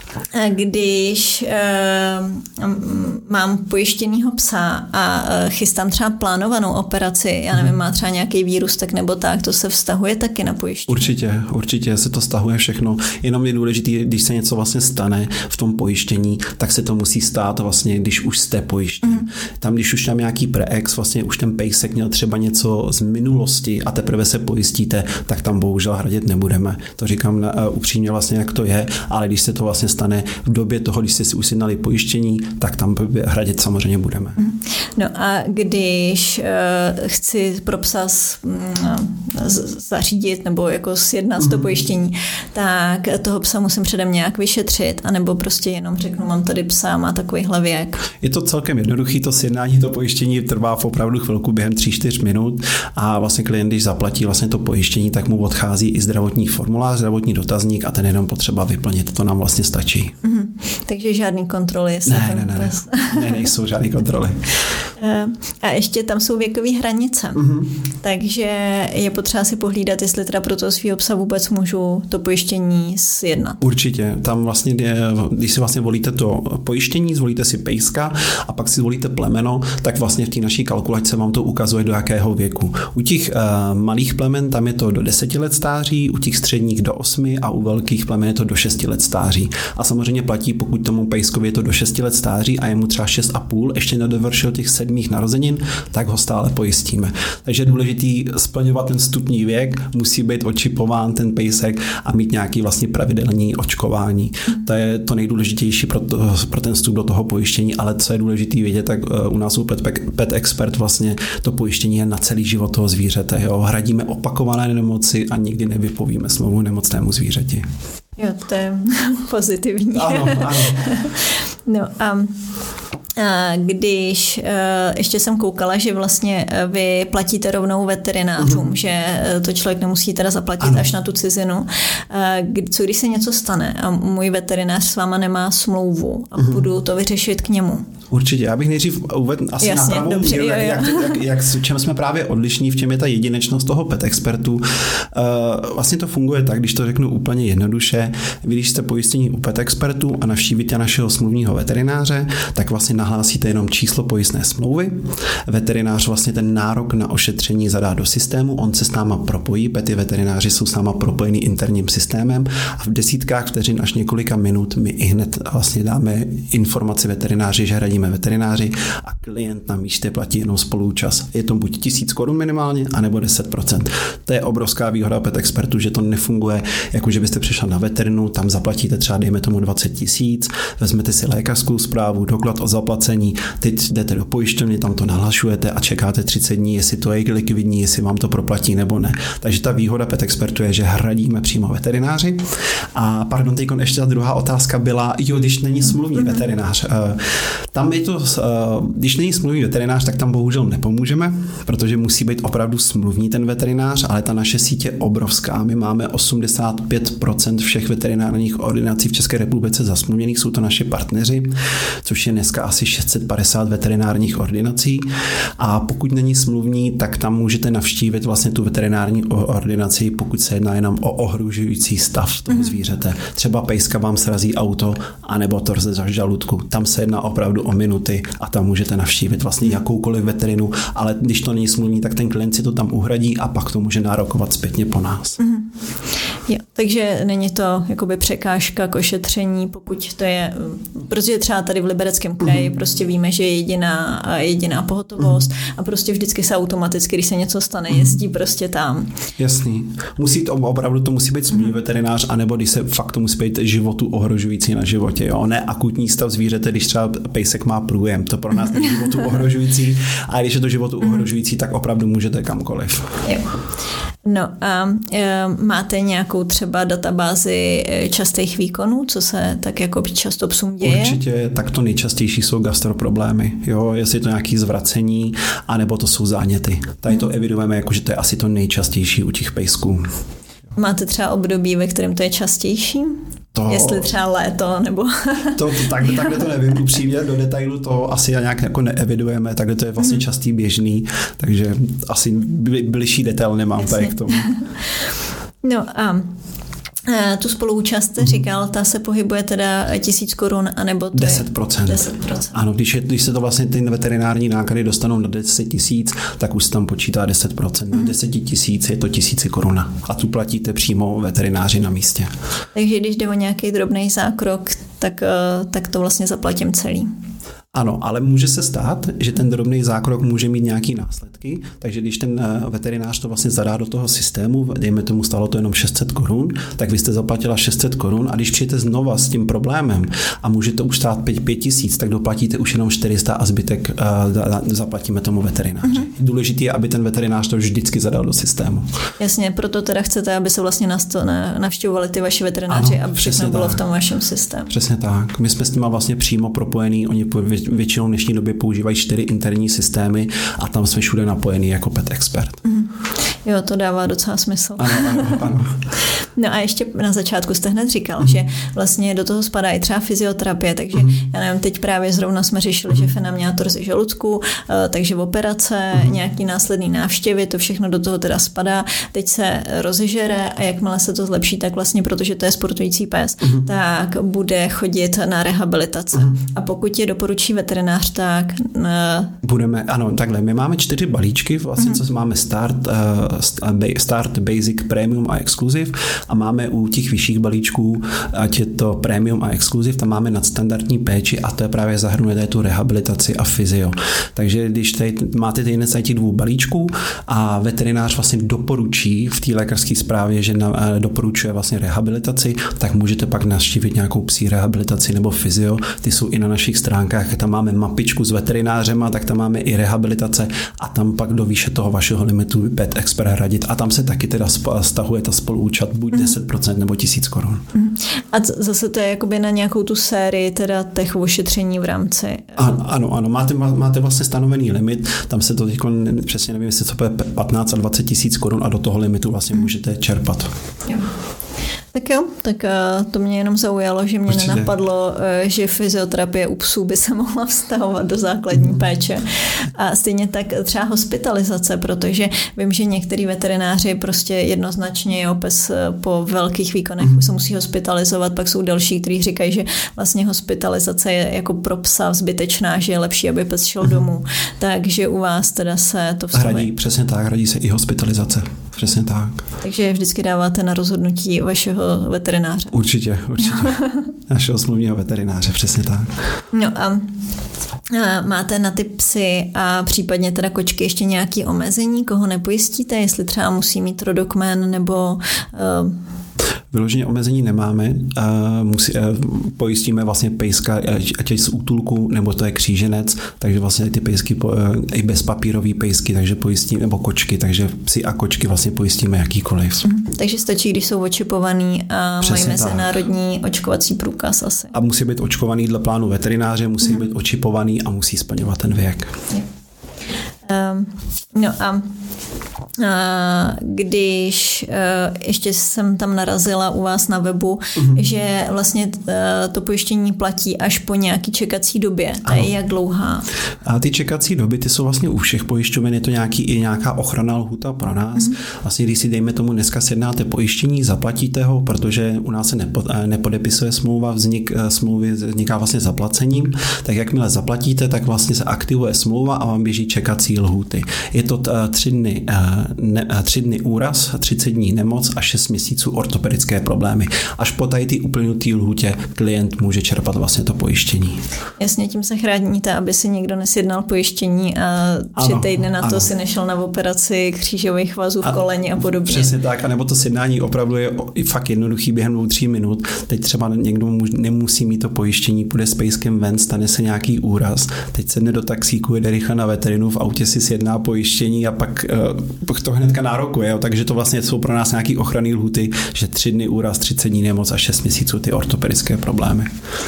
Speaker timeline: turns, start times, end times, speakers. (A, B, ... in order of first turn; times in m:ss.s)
0:00.3-0:11.1 A
0:10.9-0:34.4 B
0:34.4-0:48.1 A
0:41.4-0:41.7 B
0:48.2-1:00.1 B
1:00.2-1:03.5 A
1:02.0-1:04.4 B
1:05.0-1:07.4 A
1:07.4-1:07.7 B
1:08.0-1:13.6 A
1:13.6-1:57.6 B
1:58.2-2:02.3 A
1:59.9-2:00.9 B
2:03.2-2:17.8 A
2:08.4-2:08.6 B
2:10.6-2:10.9 B
2:16.4-2:16.6 B
2:18.1-3:35.0 B
2:19.6-2:21.2 A
3:16.1-3:16.4 A
3:35.6-3:55.4 B
3:42.5-3:42.8 A
3:55.4-3:55.6 A
3:56.5-4:09.1 A
4:09.4-4:23.2 B
4:24.2-4:31.2 A
4:30.8-4:40.0 B
4:40.8-4:46.5 A
4:43.5-4:44.1 B
4:45.6-4:54.5 B
4:53.9-4:54.6 A
4:55.6-4:56.3 A
4:57.0-5:02.6 A
5:01.1-5:12.3 B
5:12.7-5:17.1 A
5:17.7-5:38.9 B
5:39.2-5:44.7 A
5:42.7-5:43.8 B
5:44.7-5:52.6 B
5:52.6-5:52.9 A
5:53.4-5:55.4 A
5:54.8-5:55.8 B
5:56.4-6:19.3 A
6:19.4-6:57.6 B
6:57.7-7:02.7 A
7:02.6-7:10.5 B
7:11.9-7:36.7 A
7:14.3-7:14.7 B
7:36.3-7:39.4 B
7:39.6-7:42.8 A
7:42.7-7:46.1 B
7:43.4-7:44.1 A
7:46.5-7:47.1 A
7:47.9-7:56.0 A
7:56.7-8:09.9 B
8:09.8-8:14.7 A
8:12.2-8:12.9 B
8:14.7-8:19.2 B
8:20.4-8:21.9 A
8:22.8-8:33.2 A
8:33.6-9:01.2 B
9:01.6-9:09.3 A
9:05.2-9:06.1 B
9:08.2-9:29.5 B